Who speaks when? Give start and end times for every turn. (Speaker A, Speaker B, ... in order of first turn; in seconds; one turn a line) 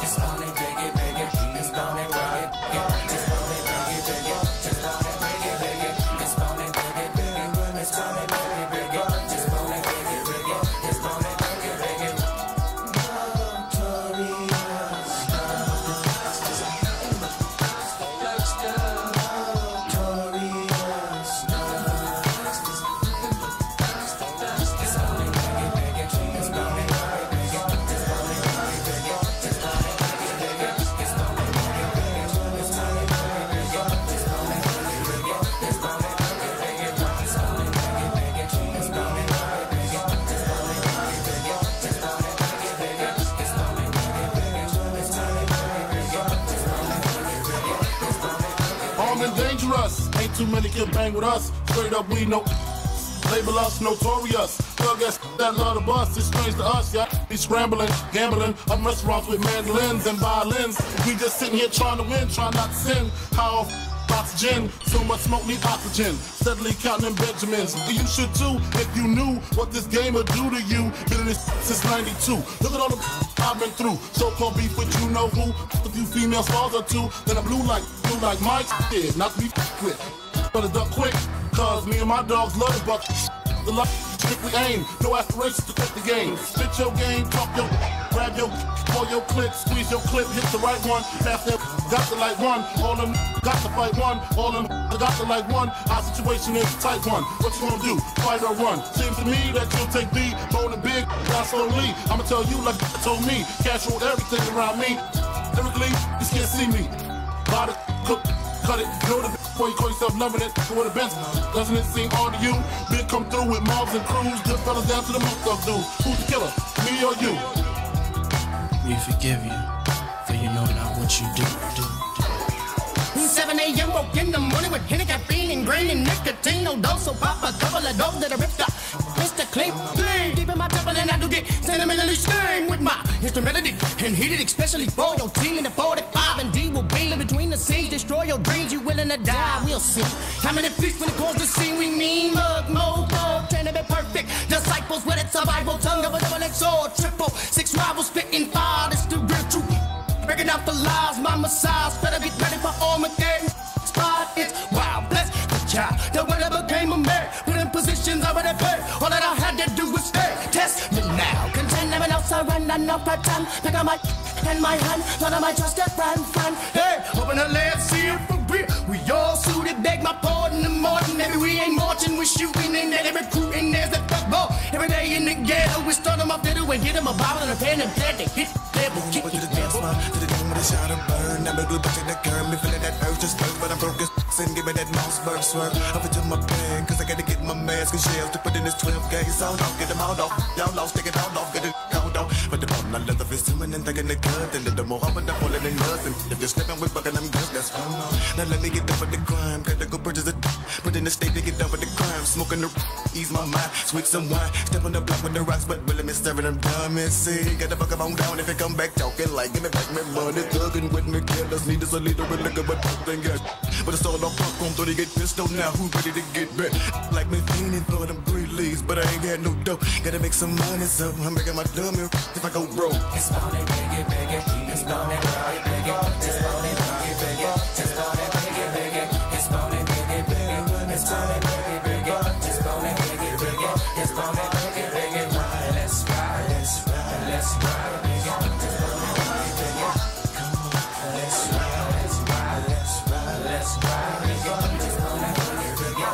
Speaker A: 0.4-2.6
Speaker A: 6.2-6.5
Speaker B: 13.9-14.8
Speaker A: 26.3-26.9
Speaker C: 49.0-83.1
Speaker C: 83.6-107.0
Speaker C: 107.5-117.5
Speaker D: 118.8-119.3
Speaker D: 120.3-121.9
Speaker E: 123.1-179.9
Speaker B: 178.9-223.2
Speaker A: 223.7-224.6
Speaker A: 228.8-230.9
Speaker B: 230.9-232.8
Speaker A: 232.9-233.5
Speaker A: 234.5-236.6
Speaker B: 240.4-241.9
Speaker A: 243.2-245.5